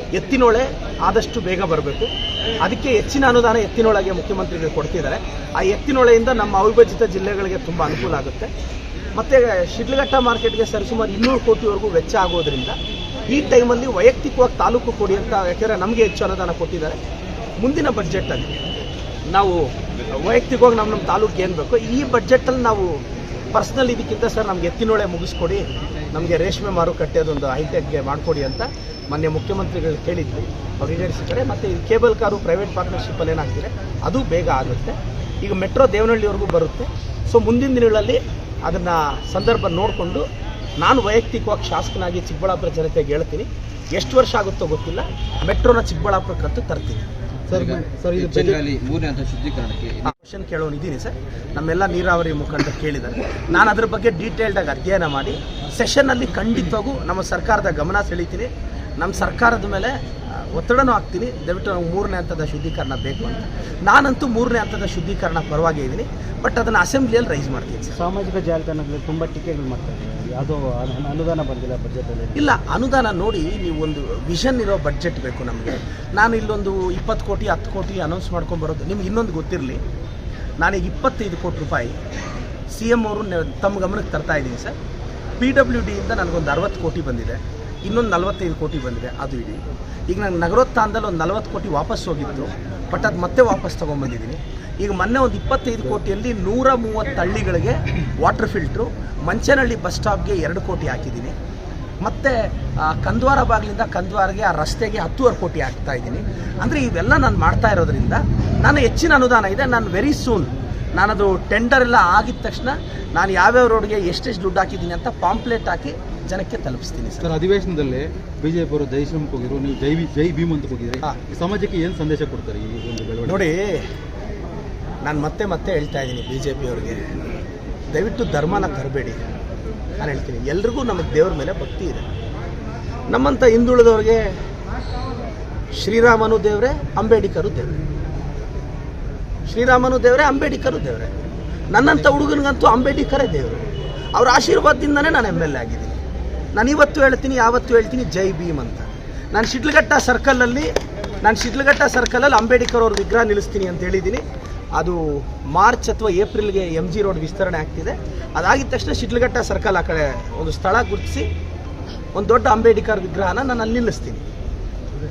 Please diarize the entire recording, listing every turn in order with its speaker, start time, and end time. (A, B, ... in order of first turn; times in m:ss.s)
0:00.1-0:08.5 A
0:09.2-0:12.8 A
0:13.3-0:17.0 A
0:17.6-0:18.5 A
0:19.3-0:40.2 A
0:40.8-0:47.1 A
0:47.5-0:48.6 B
0:47.5-0:50.1 C
0:50.0-1:08.0 A
1:08.0-1:12.4 D
1:12.3-1:19.8 A
1:20.6-1:21.9 A
1:22.7-1:24.7 A
1:25.4-1:41.3 A
1:42.0-1:57.4 A
1:57.2-2:03.4 B
2:03.2-2:03.9 A
2:05.0-2:07.1 A
2:07.9-2:09.2 A
2:10.0-2:12.0 A
2:13.1-2:14.3 A
2:15.8-2:17.7 A
2:19.5-2:21.1 A
2:21.7-2:26.0 A
2:26.5-2:30.7 A
2:31.2-2:34.2 A
2:34.7-2:41.3 A
2:42.1-2:44.2 A